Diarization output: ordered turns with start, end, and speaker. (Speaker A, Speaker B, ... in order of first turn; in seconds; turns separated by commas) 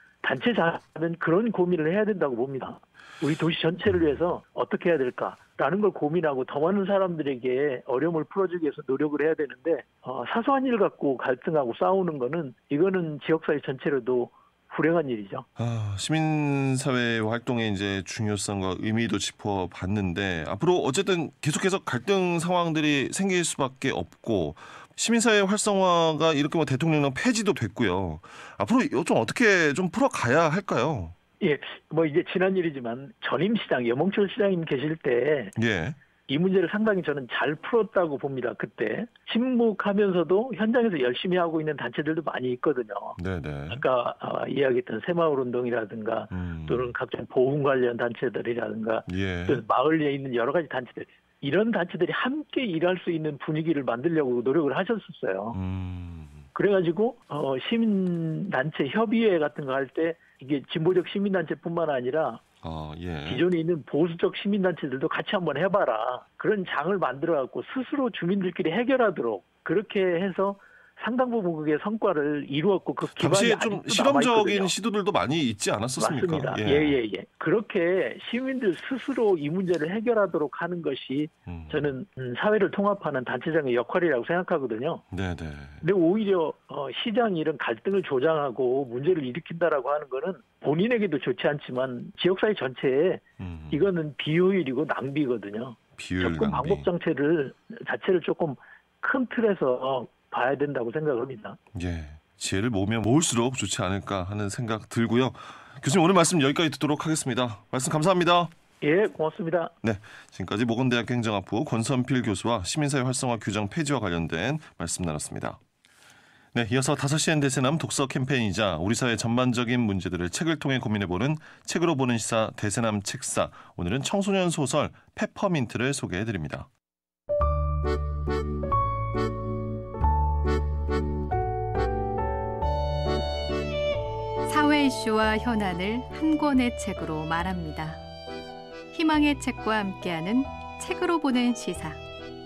Speaker A: 0.2-15.4, Speaker B: 3.9-4.3, Speaker B: 15.6-31.1, Speaker A: 31.4-35.5, Speaker B: 35.5-36.0, Speaker A: 36.3-43.2, Speaker B: 43.2-43.8, Speaker A: 43.7-55.6, Speaker B: 46.3-46.9, Speaker B: 49.1-49.6, Speaker B: 55.5-56.5, Speaker A: 56.5-62.4, Speaker B: 62.6-63.4, Speaker A: 63.2-74.7, Speaker B: 73.2-77.0, Speaker A: 76.0-85.0, Speaker B: 81.5-81.9, Speaker B: 85.1-85.8, Speaker A: 85.8-101.6, Speaker B: 93.4-93.8, Speaker B: 96.0-96.9, Speaker B: 101.7-108.5, Speaker A: 108.8-109.7, Speaker B: 109.8-115.6, Speaker B: 116.5-126.7, Speaker C: 134.4-138.0, Speaker C: 138.9-142.0